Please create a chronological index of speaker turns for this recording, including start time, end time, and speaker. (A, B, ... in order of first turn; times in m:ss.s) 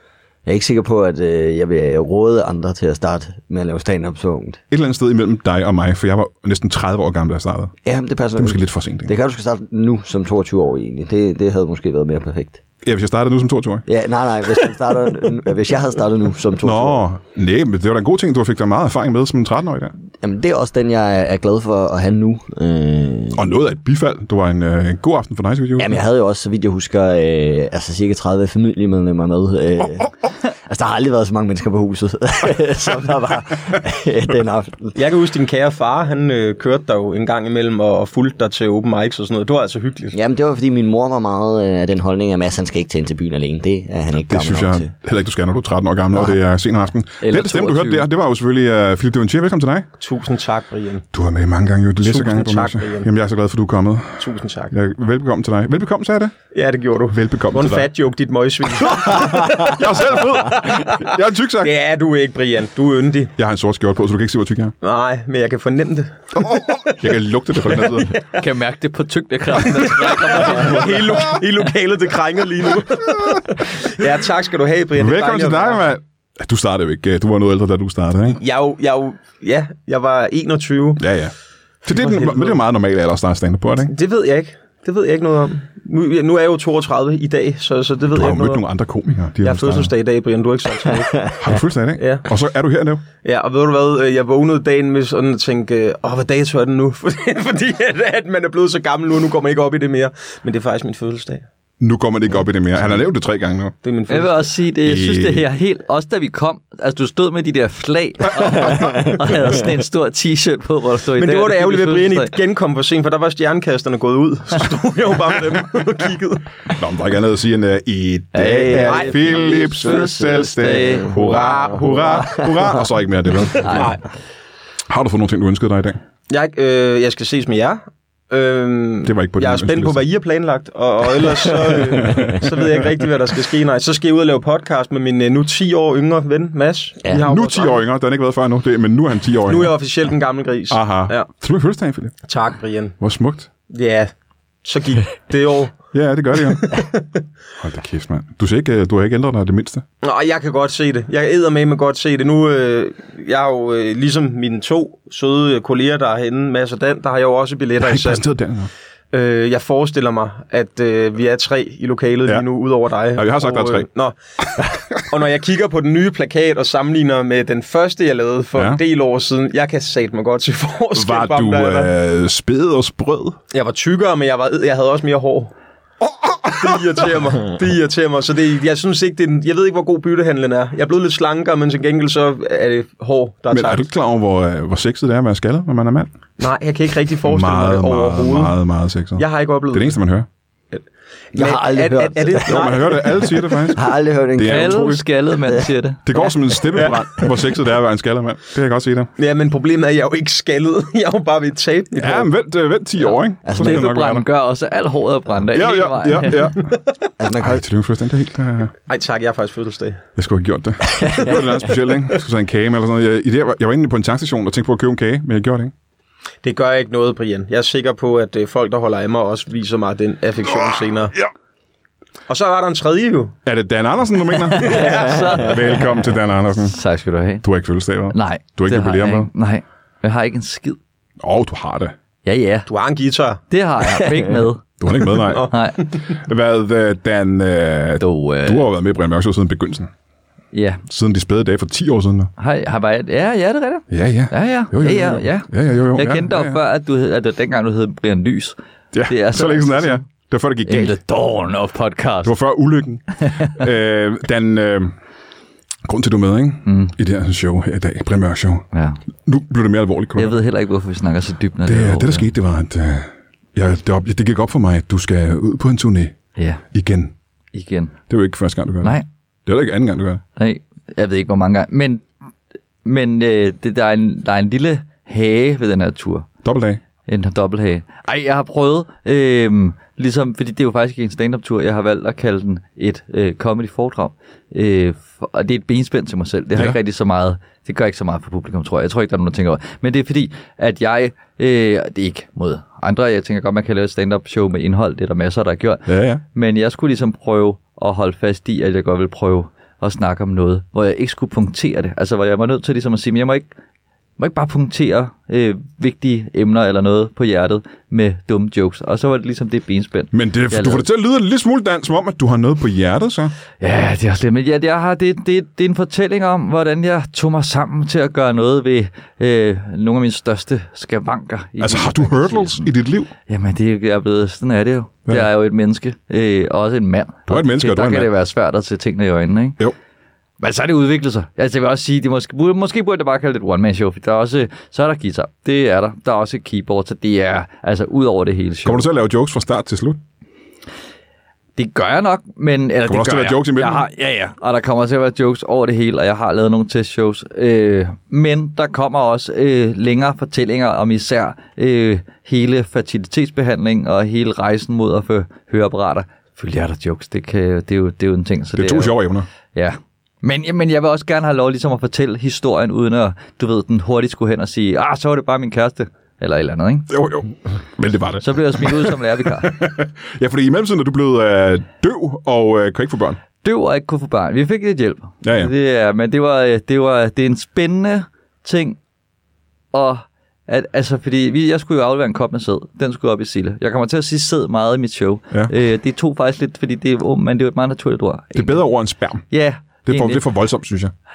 0:00.4-0:04.6 A
0:04.7-0:07.7 B
0:07.8-0:12.6 A
0:08.4-0:09.1 B
0:12.8-0:13.9 B
0:13.9-0:17.0 A
0:16.6-0:19.9 B
0:20.2-0:23.5 A
0:23.3-0:26.0 B
0:25.8-0:35.0 A
0:35.0-0:40.2 C
0:40.1-0:44.9 A
0:44.2-0:49.9 B
0:47.2-0:48.0 D
0:50.0-0:51.1 C
0:51.1-0:56.3 B
0:52.0-0:53.1 C
0:54.2-0:54.7 C
0:56.5-1:01.1 C
0:57.1-0:57.8 B
0:58.8-1:01.7 B
1:01.6-1:03.3 C
1:03.4-1:04.7 B
1:04.8-1:07.0 C
1:06.4-1:08.1 B
1:07.7-1:08.4 C
1:08.2-1:11.5 D
1:09.6-1:15.9 C
1:15.0-1:18.4 B
1:18.4-1:21.0 C
1:21.0-1:21.3 B
1:21.8-1:23.9 B
1:21.9-1:22.6 C
1:23.8-1:28.6 C
1:28.1-1:29.9 B
1:29.4-1:31.4 C
1:31.4-1:33.0 B
1:32.0-1:32.3 C
1:33.2-1:41.5 C
1:41.8-1:43.7 B
1:43.8-1:44.5 C
1:44.1-1:52.3 D
1:44.8-1:45.4 B
1:48.6-1:49.2 A
1:51.2-1:56.5 C
1:56.7-2:03.9 B
1:58.3-2:01.2 D
1:58.8-1:59.6 C
2:00.6-2:01.0 A
2:01.0-2:02.4 C
2:02.0-2:02.8 A
2:03.6-2:04.0 C
2:04.9-2:06.0 B
2:06.3-2:17.8 C
2:09.0-2:10.0 B
2:11.7-2:12.4 A
2:12.0-2:12.5 B
2:17.2-2:19.7 B
2:19.4-2:21.3 C
2:20.7-2:22.2 B
2:22.3-2:23.0 C
2:23.0-2:23.5 B
2:23.7-2:24.1 C
2:24.6-2:25.8 C
2:25.9-2:26.8 B
2:26.4-2:27.2 C
2:27.6-2:29.8 B
2:30.0-2:38.2 C
2:37.8-2:38.7 B
2:39.1-2:51.9 C
2:43.1-2:43.9 B
2:50.9-2:53.4 B
2:53.5-2:55.5 C
2:56.0-2:57.0 B
2:56.5-3:03.9 C
3:03.5-3:06.1 B
3:06.4-3:08.5 C
3:07.2-3:10.3 B
3:09.2-3:10.0 C
3:10.7-3:13.4 C
3:11.3-3:16.3 A
3:12.4-3:15.0 B
3:14.4-3:16.0 D
3:16.0-3:19.1 B
3:16.7-3:17.0 C
3:19.2-3:22.3 C
3:22.0-3:24.2 B
3:23.1-3:26.5 D
3:23.4-3:23.8 A
3:25.5-3:26.7 B
3:27.2-3:27.6 A
3:27.4-3:28.7 B
3:28.9-3:30.0 C
3:30.2-3:35.7 B
3:31.0-3:31.3 A
3:36.4-3:41.2 C
3:40.5-3:41.3 B
3:42.3-3:43.4 C
3:43.4-3:46.8 B
3:44.4-3:46.0 D
3:44.6-3:45.0 C
3:46.6-3:47.4 D
3:47.4-3:49.3 B
3:48.1-3:50.8 D
3:51.2-3:51.9 B
3:52.2-3:52.7 D
3:52.7-3:53.4 C
3:53.5-3:54.7 D
3:54.8-3:55.5 B
3:55.1-3:56.0 C
3:55.4-3:55.8 D
3:56.1-3:59.9 B
3:58.0-3:58.7 D
4:00.5-4:00.8 D
4:00.9-4:02.3 B
4:02.4-4:08.6 D
4:03.9-4:06.6 B
4:08.9-4:11.0 B
4:09.1-4:10.0 D
4:10.6-4:12.3 D
4:12.2-4:14.9 B
4:15.8-4:18.6 B
4:16.6-4:16.9 D
4:18.7-4:19.0 D
4:19.2-4:20.4 B
4:20.2-4:22.3 D
4:21.7-4:26.2 B
4:26.4-4:26.6 D
4:26.7-4:27.1 B
4:27.5-4:28.0 D
4:28.1-4:30.2 B
4:30.4-4:32.0 D
4:32.8-4:36.3 D
4:36.4-4:36.8 B
4:37.1-5:03.5 D
4:55.9-4:56.2 B
5:04.2-5:10.8 D
5:10.1-5:13.3 B
5:13.6-5:22.7 D
5:21.6-5:23.1 B
5:23.3-5:29.6 D
5:27.3-5:28.1 B
5:30.4-5:38.9 D
5:38.6-5:40.0 B
5:41.6-5:59.0 D
5:42.9-5:43.9 B
5:58.5-5:59.3 B
5:59.5-6:06.9 D
6:06.9-6:13.2 B
6:08.2-6:09.6 D
6:13.4-6:18.8 D
6:15.2-6:15.5 B
6:19.7-6:28.6 D
6:28.3-6:29.2 B
6:29.3-6:30.2 D
6:29.8-6:30.9 B